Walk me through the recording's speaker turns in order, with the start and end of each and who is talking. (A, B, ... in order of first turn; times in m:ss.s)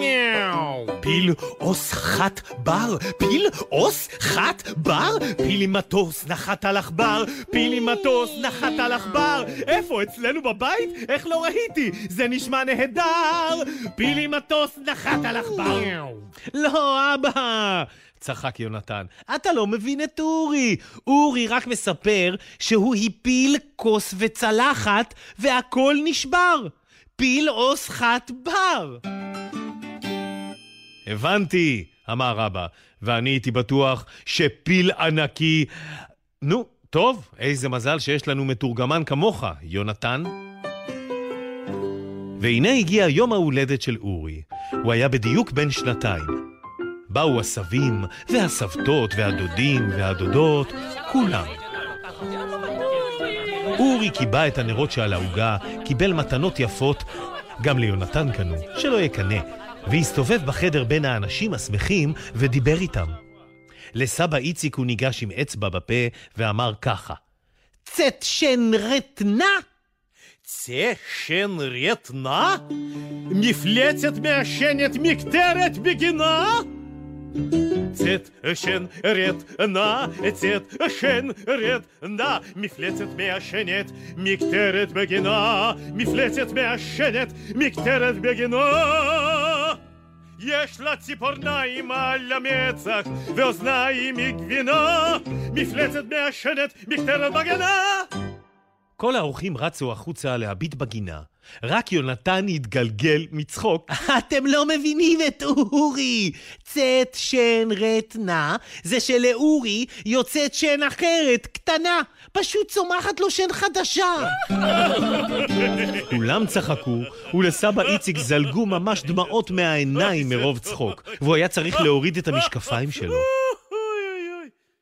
0:00.8-0:29.0 A
0:31.1-0:35.7 A
0:36.4-0:40.3 A
0:42.4-0:46.4 A
0:47.1-0:51.6 A
0:53.8-0:57.0 A
0:57.6-1:03.2 A
1:04.0-1:07.2 A
1:07.9-1:09.6 A
1:10.4-1:12.6 A
1:13.3-1:16.7 A
1:17.9-1:29.8 A
1:30.4-1:38.1 A
1:39.0-1:54.4 A
1:56.1-2:03.3 A